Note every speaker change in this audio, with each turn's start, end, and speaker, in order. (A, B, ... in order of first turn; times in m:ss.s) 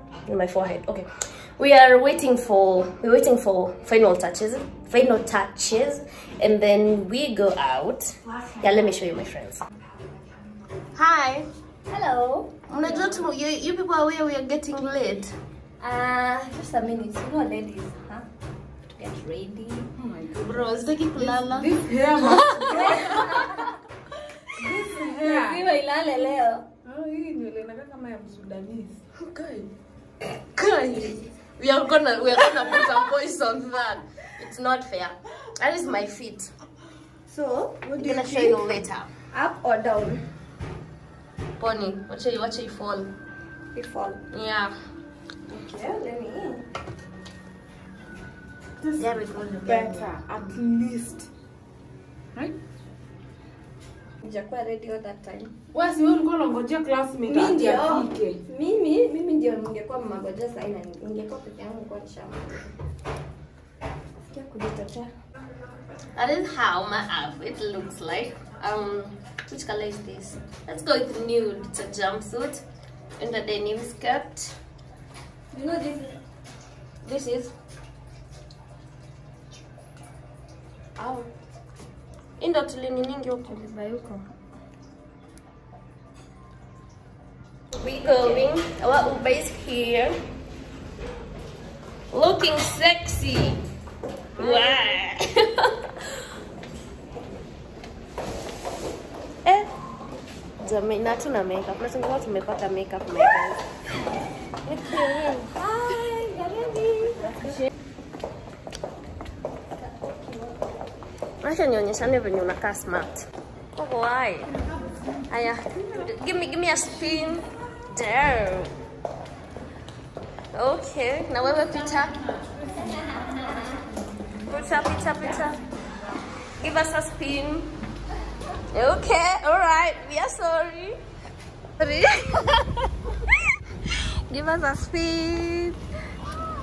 0:00.2-0:09.6 A
0:10.9-0:11.5 A
0:11.9-0:12.6 B
0:12.7-0:15.4 A
0:15.8-0:18.3 B
0:18.9-0:19.9 B
0:20.0-0:20.5 C
0:20.4-0:21.7 A
0:21.2-0:23.2 C
0:22.3-0:23.2 A
0:22.6-0:23.7 B
0:24.5-0:25.6 C
0:25.0-0:26.7 B
0:26.8-0:29.6 C
0:30.4-0:36.5 A
0:37.3-0:38.6 B
0:38.0-0:39.1 A
0:39.3-0:40.2 B
0:41.6-0:43.1 A
0:43.7-0:44.2 B
0:44.3-0:44.8 A
0:45.5-0:46.6 B
0:49.0-0:50.0 A
0:49.6-0:51.3 C
0:54.2-0:55.5 B
0:55.7-0:58.4 C
0:57.3-1:02.6 B
1:04.3-1:05.1 B
1:06.2-1:12.6 A
1:13.2-1:14.6 A
1:15.5-1:16.2 B
1:17.0-1:17.4 B
1:17.1-1:17.5 A
1:22.4-1:23.6 A
1:23.5-1:24.2 B
1:27.7-1:30.2 A
1:32.1-1:33.6 A
1:34.4-1:35.9 A
1:34.4-1:34.7 B
1:39.4-1:39.7 A
1:40.6-1:43.6 A
1:44.7-1:45.5 A
1:45.5-1:47.6 B
1:49.8-1:50.6 B
1:51.4-1:54.6 A
1:55.3-1:58.7 A
2:00.5-2:02.2 A
2:04.4-2:05.6 A
2:06.6-2:07.8 A
2:08.7-2:11.0 A
2:11.8-2:12.7 B
2:13.8-2:15.8 B